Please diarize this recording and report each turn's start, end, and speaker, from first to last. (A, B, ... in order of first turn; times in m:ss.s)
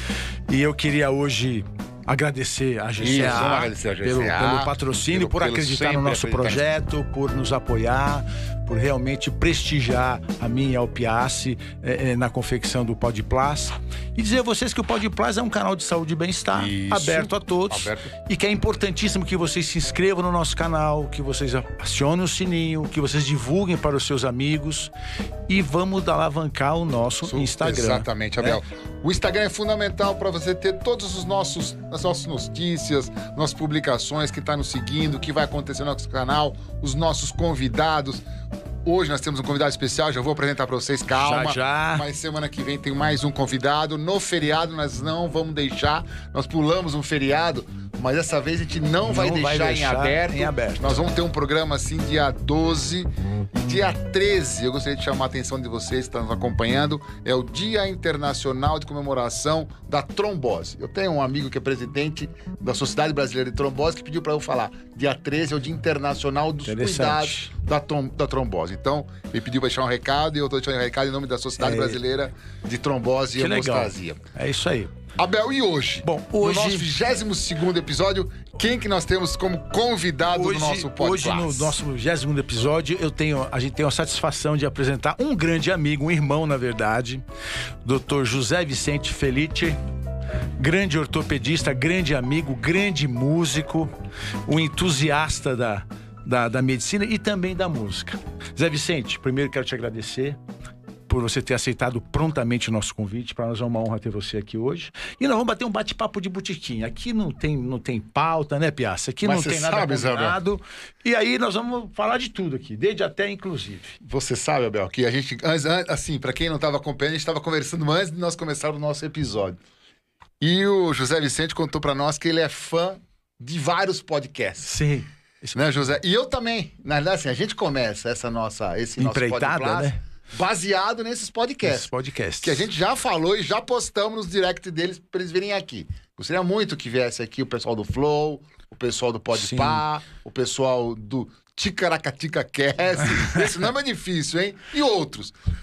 0:00.5-0:24.9 A
0:03.0-0:06.7 B
0:16.5-0:18.1 B
0:25.5-0:28.6 A
0:27.2-0:38.2 B
0:38.8-1:14.2 B
0:41.1-0:42.0 A
0:49.1-0:51.0 A
1:06.6-1:07.5 A
1:11.6-1:12.0 A
1:13.4-1:14.9 A
1:15.2-1:21.8 B
1:16.0-1:16.9 A
1:20.3-1:27.2 A
1:27.8-1:29.8 A
1:30.6-1:33.9 A
1:34.5-1:40.4 A
1:41.1-1:54.0 A
1:49.2-1:50.4 B
1:54.0-1:59.6 B
2:00.4-2:04.8 B
2:04.6-2:05.6 A
2:05.5-2:11.9 B
2:09.0-2:10.0 A
2:11.6-2:12.7 A
2:12.4-2:25.3 B
2:19.3-2:19.8 A